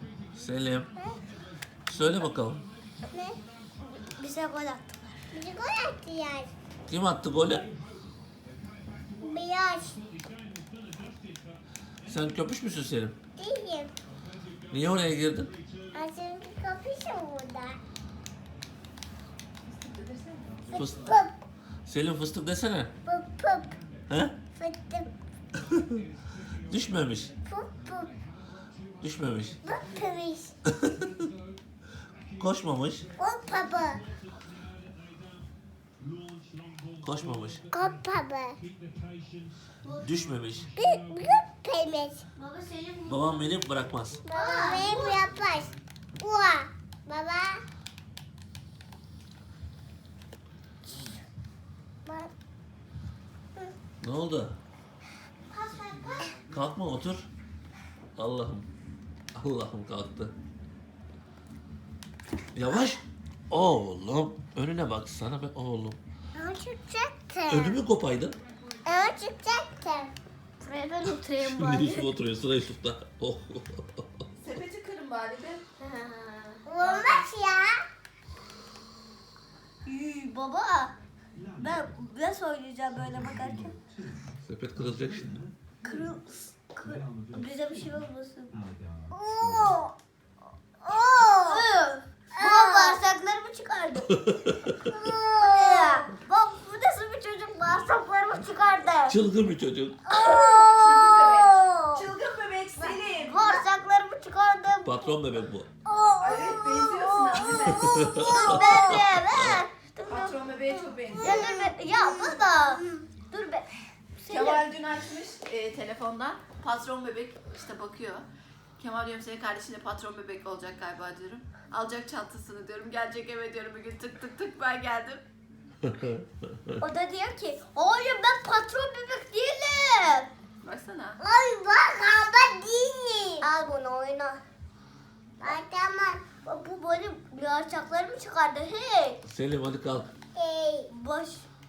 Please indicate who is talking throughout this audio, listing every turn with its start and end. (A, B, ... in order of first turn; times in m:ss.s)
0:00.3-0:00.9 A
0:01.9-0:02.6 A
0:03.1-0:03.4 B
0:04.2-0:05.3 C
0:05.3-0:06.5 B
0:06.9-0:07.7 A
0:09.2-0:10.0 B
0:12.0-0:13.2 A
0:13.4-0:13.9 B
0:14.7-0:15.6 A
0:15.9-0:17.8 B
0:19.6-0:20.7 D
0:20.7-0:21.4 B
0:20.8-0:21.0 A
0:21.9-0:22.9 A
0:23.1-0:23.8 B
0:24.6-0:25.1 B
0:26.7-0:27.3 A
0:27.5-0:28.1 B
0:29.0-0:29.6 A
0:29.6-0:30.5 B
0:32.4-0:33.1 A
0:33.2-0:34.0 B
0:37.0-0:37.6 A
0:37.7-0:38.6 B
0:40.0-0:40.7 A
0:40.8-0:42.2 B
0:42.4-0:43.4 C
0:43.1-0:44.2 A
0:44.2-0:47.6 B
0:44.3-0:45.2 C
0:52.1-0:52.3 B
0:54.0-0:54.6 A
0:55.6-0:56.2 C
0:55.7-0:56.3 B
0:56.5-0:57.3 A
0:58.2-0:58.7 A
0:59.4-1:00.3 A
1:02.6-1:06.0 A
1:06.4-1:07.8 B
1:07.5-1:08.4 A
1:08.8-1:10.1 B
1:10.6-1:12.1 C
1:11.4-1:14.2 A
1:14.4-1:15.6 D
1:15.8-1:16.6 C
1:16.6-1:17.8 B
1:16.8-1:17.2 D
1:19.8-1:20.9 C
1:21.6-1:23.8 C
1:24.4-1:25.4 A
1:25.8-1:28.6 C
1:29.1-1:29.9 B
1:30.8-1:31.6 B
1:31.2-1:34.1 C
1:32.3-1:33.0 B
1:34.1-1:34.8 A
1:35.0-1:35.9 B
1:35.1-1:39.2 C
1:39.1-1:40.0 A
1:40.1-1:40.7 B
1:40.1-1:42.0 C
1:40.7-1:43.6 D
1:42.8-1:45.3 C
1:44.8-1:45.7 A
1:45.9-1:54.6 C
1:46.2-1:48.3 D
1:47.9-1:49.6 A
1:48.1-1:48.7 B
1:50.0-1:51.5 D
1:51.1-1:53.0 B
1:54.3-1:58.3 D
1:58.8-2:05.2 D
2:05.8-2:06.8 A
2:06.8-2:10.3 C
2:10.6-2:11.2 D
2:11.2-2:13.5 B
2:13.4-2:14.4 C
2:15.4-2:16.3 B
2:16.3-2:19.2 C
2:19.2-2:20.1 A
2:20.4-2:20.9 B
2:20.9-2:21.5 C